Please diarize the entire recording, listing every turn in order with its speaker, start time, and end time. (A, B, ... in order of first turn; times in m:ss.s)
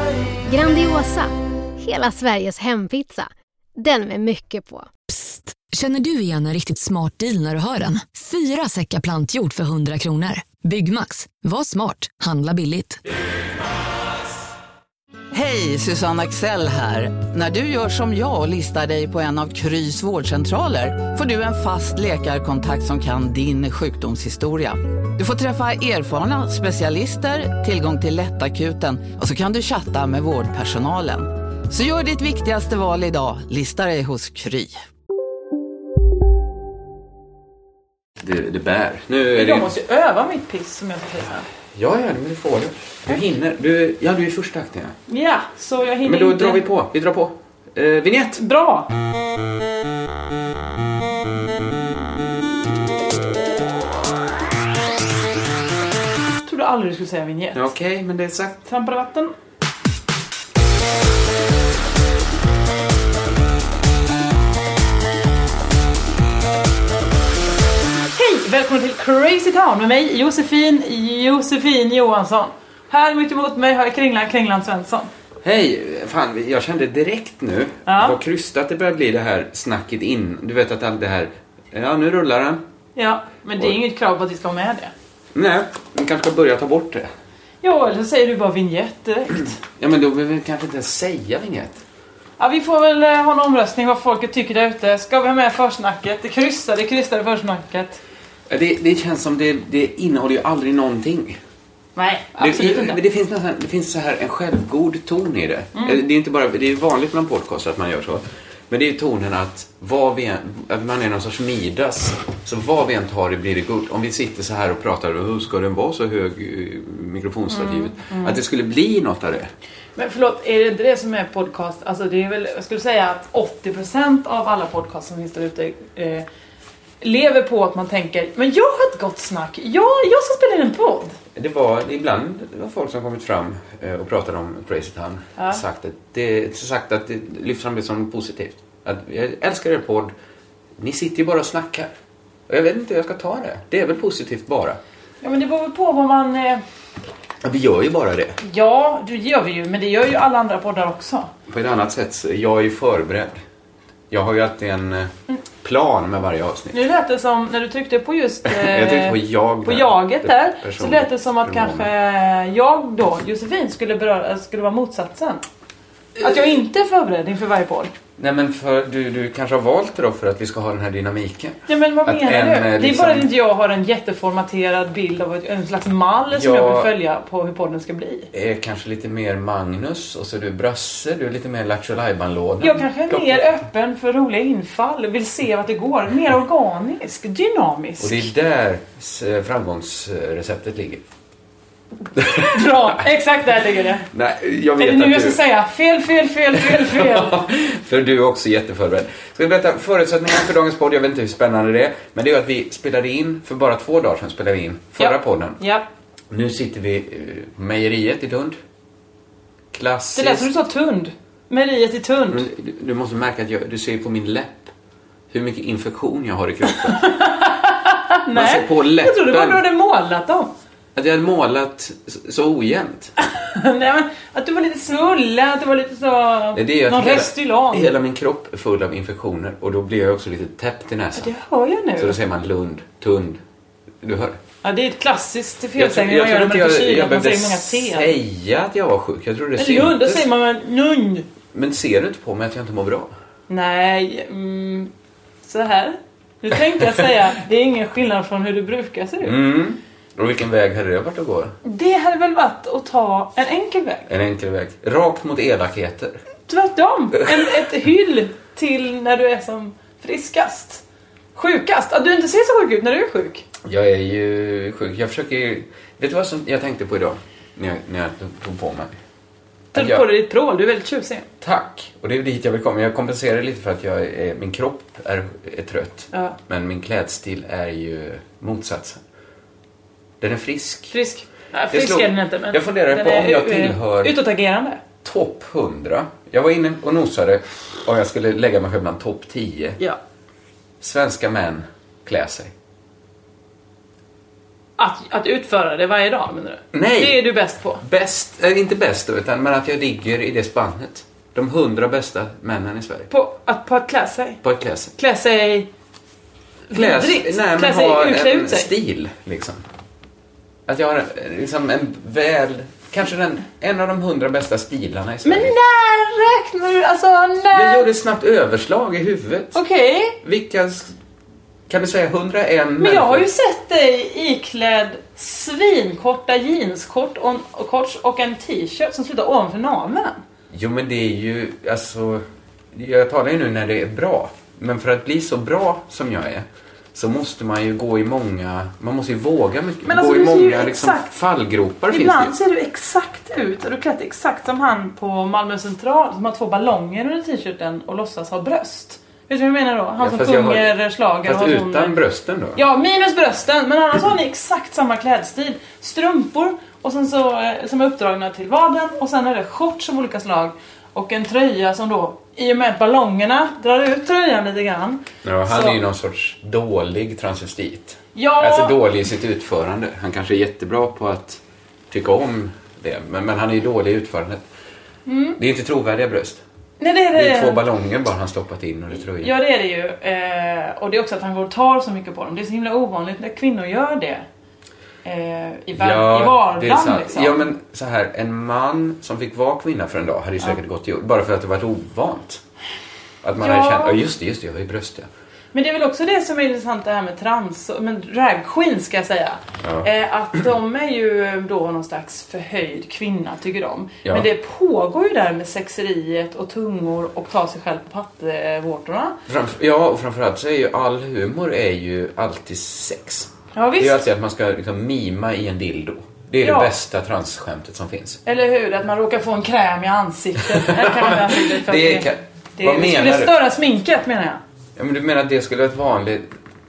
0:00.5-0:05.1 A
0:05.1-0:13.0 B
0:15.3-0:34.7 C
0:38.2-0:39.8 D
0:39.3-0:41.5 E
0:41.7-0:45.0 D
0:45.1-0:46.6 E
0:46.0-0:48.4 D
0:48.4-0:48.9 E
0:56.4-0:57.7 E
0:57.5-0:58.6 D
0:58.6-0:59.3 E
1:08.1-1:15.1 E
1:15.4-1:22.6 D
1:17.8-1:18.2 E
1:23.0-1:24.9 E
1:25.3-1:27.1 D
1:27.6-1:29.6 E
1:29.8-1:31.8 D
1:32.4-1:38.0 E
1:38.5-1:41.4 D
1:42.0-1:43.0 E
1:42.4-1:59.5 D
1:45.7-1:46.0 E
1:57.5-1:58.4 E
2:00.0-2:06.2 E
2:07.0-2:11.2 E
2:11.3-2:20.1 D
2:20.8-2:21.9 D
2:22.5-2:24.8 D
2:25.2-2:26.6 E
2:27.4-2:28.4 D
2:28.4-2:31.3 E
2:31.5-2:33.4 D
2:34.1-2:35.1 D
2:35.6-2:36.7 D
2:36.7-2:45.4 E
2:38.4-2:41.9 D
2:46.2-2:47.9 E
2:48.2-2:53.3 D
2:51.7-2:58.3 E
2:56.3-2:56.9 D
2:58.3-3:03.6 D
3:02.6-3:08.3 E
3:08.0-3:11.0 D
3:12.2-3:13.0 D
3:12.3-3:14.1 E
3:14.1-3:15.4 D
3:14.8-3:17.4 E
3:16.5-3:25.6 D
3:25.0-3:25.8 E
3:26.3-3:28.6 D
3:29.7-3:30.5 D
3:30.1-3:32.4 E
3:32.3-3:34.7 D
3:35.3-3:37.0 D
3:36.8-3:40.5 E
3:38.3-3:39.6 D
3:40.9-3:43.1 D
3:43.2-3:47.9 E
3:46.5-3:51.3 D
3:51.2-3:52.2 E
3:52.0-3:53.4 D
3:54.0-3:54.4 D
3:54.6-3:58.1 E
3:55.8-4:00.3 D
3:59.6-4:01.2 E
4:01.5-4:03.1 D
4:03.5-4:04.9 E
4:05.4-4:09.4 E
4:09.2-4:11.5 D
4:11.6-4:14.1 E
4:14.1-4:16.2 D
4:16.5-4:20.8 E
4:21.3-4:23.4 E
4:23.6-4:28.9 D
4:29.7-4:30.0 D
4:29.7-4:31.2 E
4:31.4-4:39.0 D
4:36.1-4:36.4 E
4:40.2-4:40.9 D
4:40.9-4:44.8 E
4:41.7-4:44.2 D
4:45.0-4:49.8 D
4:50.8-4:52.5 D
4:54.8-4:57.8 E
4:56.7-4:57.2 D
4:57.8-5:03.1 D
5:03.1-5:04.4 E
5:04.4-5:04.9 D
5:05.0-5:05.7 E
5:06.7-5:08.7 E
5:06.7-5:09.6 D
5:10.7-5:15.5 D
5:15.2-5:17.9 E
5:17.5-5:19.6 D
5:19.5-5:20.2 E
5:20.2-5:20.9 D
5:21.7-5:23.3 D
5:22.8-5:30.2 E
5:30.5-5:42.3 D
5:39.8-5:41.1 E
5:41.9-5:52.0 E
5:50.0-5:52.6 D
5:52.5-6:05.8 E
6:05.2-6:14.4 D
6:08.1-6:08.8 E
6:15.0-6:15.4 E
6:15.4-6:16.4 D
6:16.8-6:17.6 E
6:17.1-6:19.3 D
6:19.0-6:24.2 E
6:25.0-6:27.4 E
6:25.7-6:32.4 D
6:33.2-6:35.1 D
6:33.4-6:34.0 E
6:35.5-6:49.2 E
6:39.6-6:39.9 D
6:49.3-6:58.2 D
6:53.5-6:54.0 E
6:56.4-6:56.7 E
6:58.2-7:04.4 E
7:00.5-7:03.4 D
7:04.8-7:06.3 D